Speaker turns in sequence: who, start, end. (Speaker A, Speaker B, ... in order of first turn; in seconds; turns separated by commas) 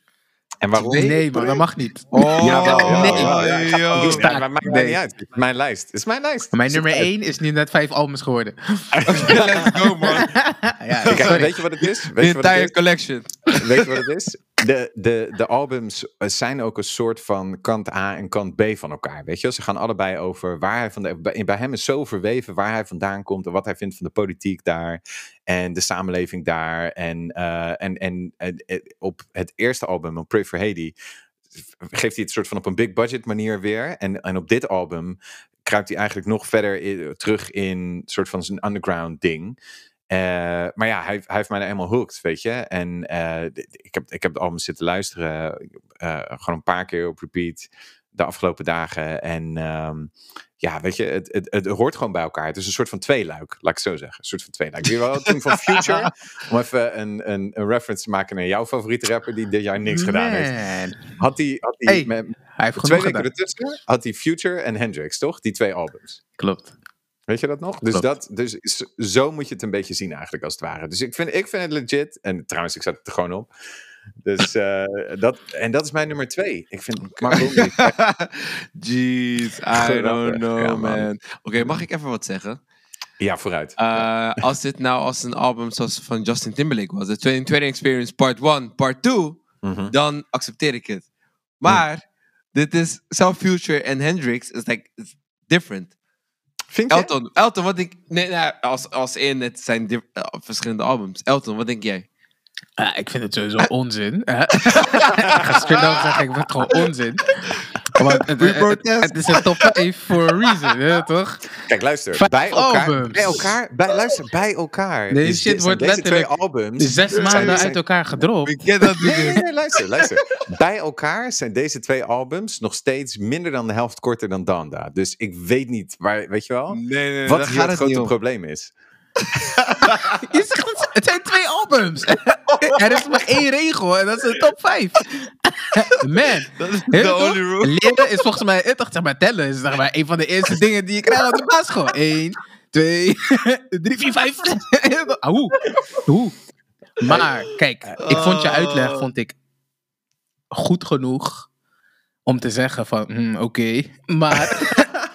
Speaker A: 0.6-1.6, Speaker B: 0.8-1.1, Speaker C: 0.9-5.0, Speaker B: 2.1-4.2, Speaker A: 2.4-7.1, Speaker C: 6.5-11.5, Speaker A: 9.0-9.7, Speaker B: 9.1-10.3, Speaker A: 11.1-12.8, Speaker B: 11.1-13.9, Speaker A: 13.5-30.9, Speaker A: 31.8-39.6, Speaker A: 40.1-60.5, Speaker B: 55.7-56.1, Speaker C: 59.9-61.0, Speaker A: 61.1-66.2, Speaker C: 61.9-63.3, Speaker C: 66.4-66.7, Speaker A: 67.3-73.5, Speaker A: 74.2-78.0, Speaker B: 77.2-82.6, Speaker A: 79.7-81.1, Speaker A: 83.2-84.1, Speaker B: 83.8-91.0, Speaker A: 89.6-89.9, Speaker B: 91.6-92.0, Speaker B: 92.5-95.9, Speaker A: 96.7-97.1, Speaker B: 96.9-102.1, Speaker C: 102.8-107.3, Speaker B: 104.7-106.2, Speaker B: 107.4-107.6, Speaker C: 108.0-113.5, Speaker B: 108.3-109.7, Speaker A: 111.7-117.8, Speaker C: 115.1-118.6, Speaker B: 117.1-117.7, Speaker B: 118.5-119.5, Speaker A: 119.0-128.7, Speaker B: 126.7-128.1, Speaker B: 129.5-130.1, Speaker C: 130.2-135.1, Speaker C: 135.7-145.6, Speaker B: 136.6-138.1, Speaker C: 146.1-146.3, Speaker C: 147.0-149.4, Speaker B: 148.0-149.0, Speaker C: 150.5-151.5, Speaker C: 152.3-154.9